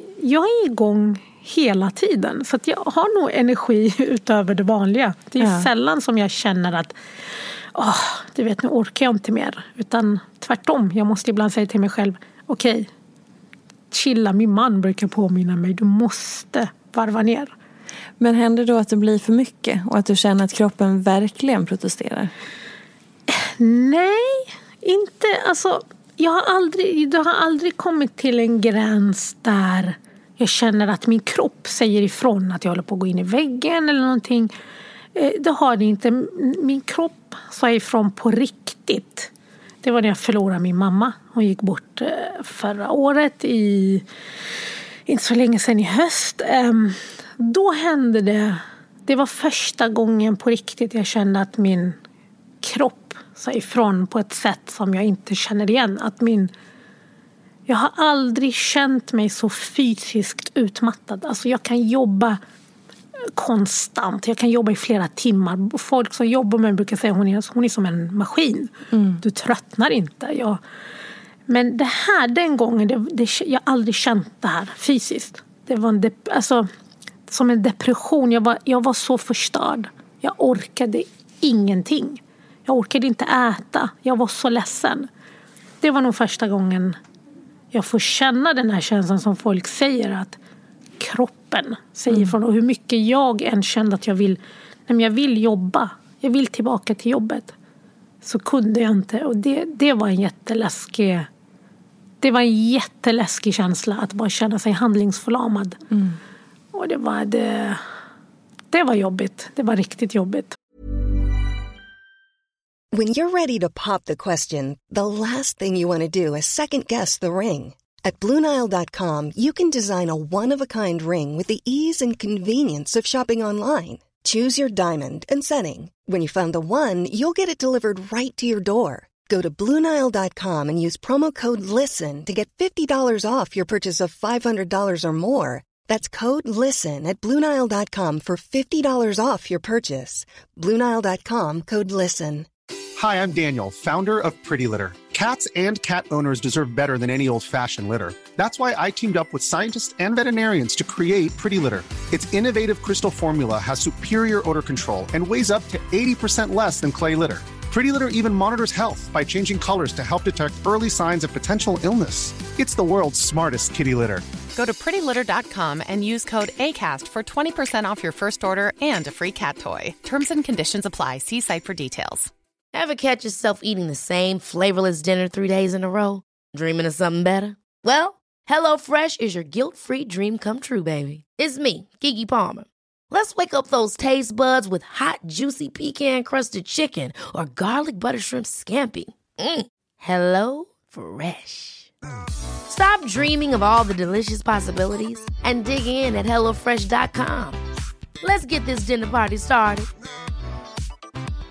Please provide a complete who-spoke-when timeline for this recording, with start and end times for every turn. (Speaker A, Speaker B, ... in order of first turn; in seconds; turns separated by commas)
Speaker A: 0.2-6.9, Speaker B: 5.4-5.7, Speaker A: 7.7-12.9, Speaker A: 13.9-17.5, Speaker B: 18.2-22.3, Speaker A: 23.3-34.5, Speaker A: 35.1-39.3, Speaker A: 39.8-44.0, Speaker A: 45.1-52.0, Speaker A: 52.6-56.5, Speaker A: 57.7-62.4, Speaker A: 63.4-70.6, Speaker B: 68.9-69.2, Speaker A: 71.5-76.7, Speaker A: 77.3-85.1, Speaker A: 85.8-87.0, Speaker A: 87.7-90.4, Speaker A: 91.0-97.5, Speaker A: 98.2-101.3, Speaker A: 102.2-105.8, Speaker B: 105.9-106.2, Speaker A: 106.7-107.8, Speaker A: 108.7-110.5, Speaker C: 112.9-142.5, Speaker D: 143.0-164.3, Speaker E: 164.5-172.3, Speaker F: 172.7-191.9, Speaker F: 192.7-197.6, Speaker F: 198.2-199.9